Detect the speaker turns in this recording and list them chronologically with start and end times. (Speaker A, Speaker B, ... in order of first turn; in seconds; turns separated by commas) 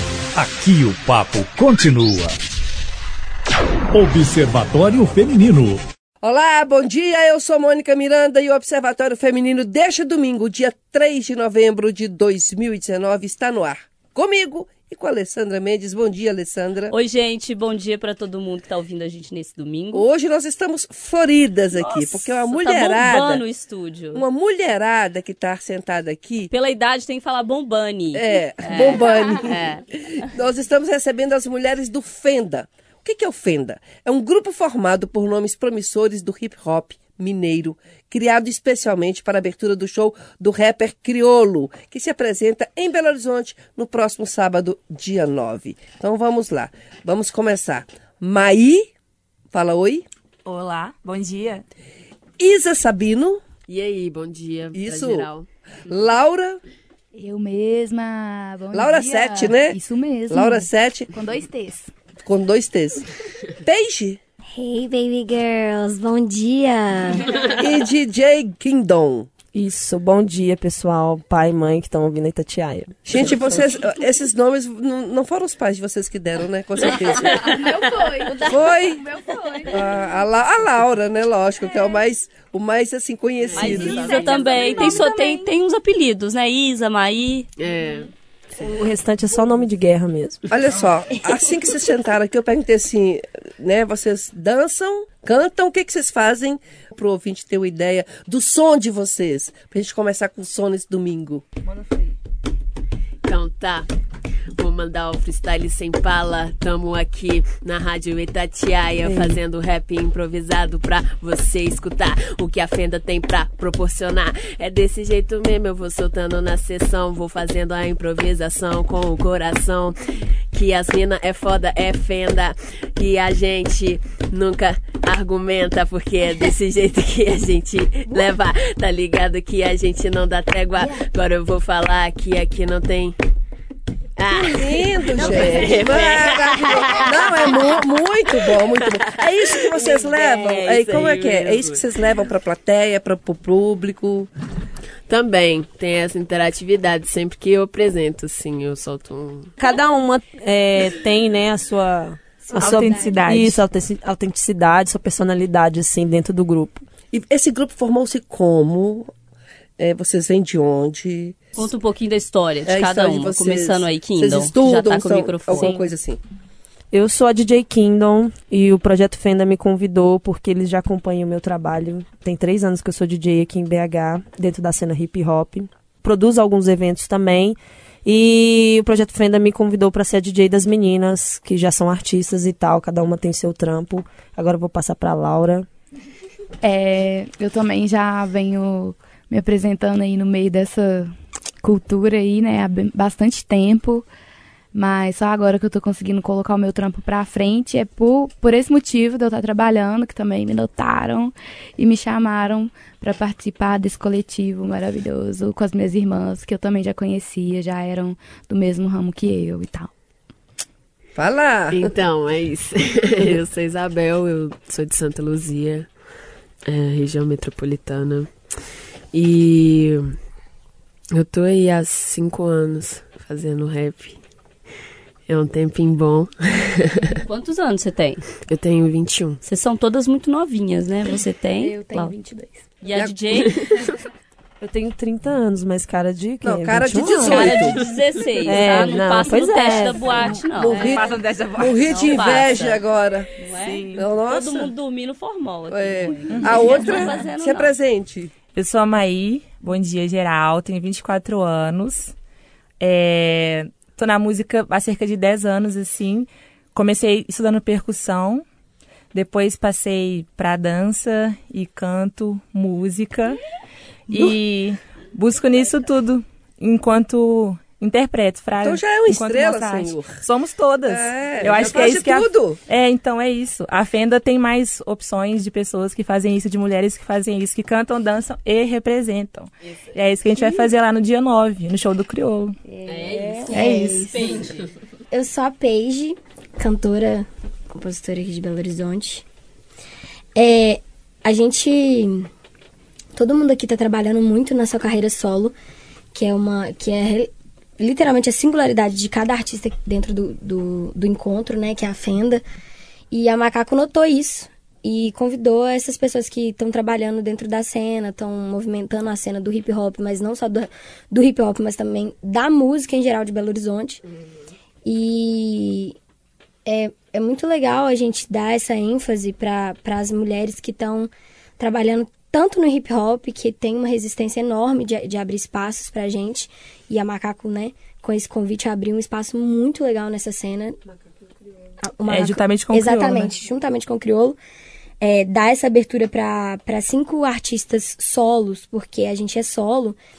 Speaker A: 0.3-2.4, Speaker A: 3.9-5.8, Speaker B: 6.2-16.9, Speaker C: 16.9-20.1, Speaker B: 19.9-23.4, Speaker C: 21.7-24.2, Speaker B: 24.1-26.5, Speaker C: 26.5-29.9, Speaker B: 28.1-48.9, Speaker B: 49.5-50.1, Speaker D: 50.5-51.6, Speaker B: 52.4-53.4, Speaker E: 53.7-55.5, Speaker B: 54.7-55.3, Speaker B: 55.9-56.6, Speaker F: 57.2-61.9, Speaker B: 58.7-59.8, Speaker B: 60.3-61.1, Speaker B: 62.2-63.1, Speaker B: 63.6-64.2, Speaker G: 64.5-67.3, Speaker B: 67.6-69.3, Speaker H: 69.5-73.6, Speaker B: 73.1-77.4, Speaker F: 76.9-79.9, Speaker B: 78.4-79.0, Speaker B: 79.7-84.4, Speaker F: 81.7-81.9, Speaker E: 83.5-85.0, Speaker C: 83.6-87.5, Speaker F: 83.6-85.5, Speaker E: 87.6-88.1, Speaker H: 88.6-90.4, Speaker B: 90.5-101.5, Speaker D: 101.7-102.1, Speaker E: 103.2-103.9, Speaker E: 104.5-133.2, Speaker H: 109.0-109.4, Speaker E: 134.2-142.2, Speaker B: 134.3-144.3, Speaker E: 145.1-149.5, Speaker H: 149.6-156.8, Speaker D: 152.6-153.6, Speaker B: 157.1-159.1, Speaker B: 159.8-161.4, Speaker C: 161.6-165.8, Speaker B: 162.7-166.2, Speaker H: 166.9-185.7, Speaker F: 186.6-194.1, Speaker F: 194.7-209.9, Speaker B: 211.2-211.8, Speaker E: 211.7-215.9, Speaker E: 216.7-218.6, Speaker E: 219.1-220.2, Speaker E: 221.1-224.2, Speaker E: 225.3-227.2, Speaker C: 227.2-228.2, Speaker E: 228.5-229.4, Speaker C: 229.4-232.1, Speaker F: 231.6-232.7, Speaker C: 232.8-233.6, Speaker H: 234.6-237.6, Speaker B: 236.4-237.8, Speaker C: 237.2-241.0, Speaker H: 238.4-240.3, Speaker B: 240.5-243.3, Speaker D: 240.8-242.4, Speaker C: 241.8-242.8, Speaker C: 243.4-247.7, Speaker D: 243.6-244.0, Speaker B: 243.9-244.7, Speaker B: 245.7-248.3, Speaker D: 246.3-247.1, Speaker D: 248.6-252.2, Speaker D: 252.8-258.4, Speaker D: 259.1-263.4, Speaker D: 264.1-282.6, Speaker B: 268.6-270.2, Speaker B: 270.9-272.6, Speaker G: 282.7-284.5, Speaker E: 282.9-284.6, Speaker G: 285.1-289.2, Speaker G: 290.4-292.3, Speaker G: 293.2-295.6, Speaker G: 296.1-302.4, Speaker G: 303.1-314.0, Speaker G: 314.9-315.9, Speaker G: 316.6-330.8, Speaker G: 331.8-334.4, Speaker D: 332.1-333.3, Speaker G: 335.0-340.0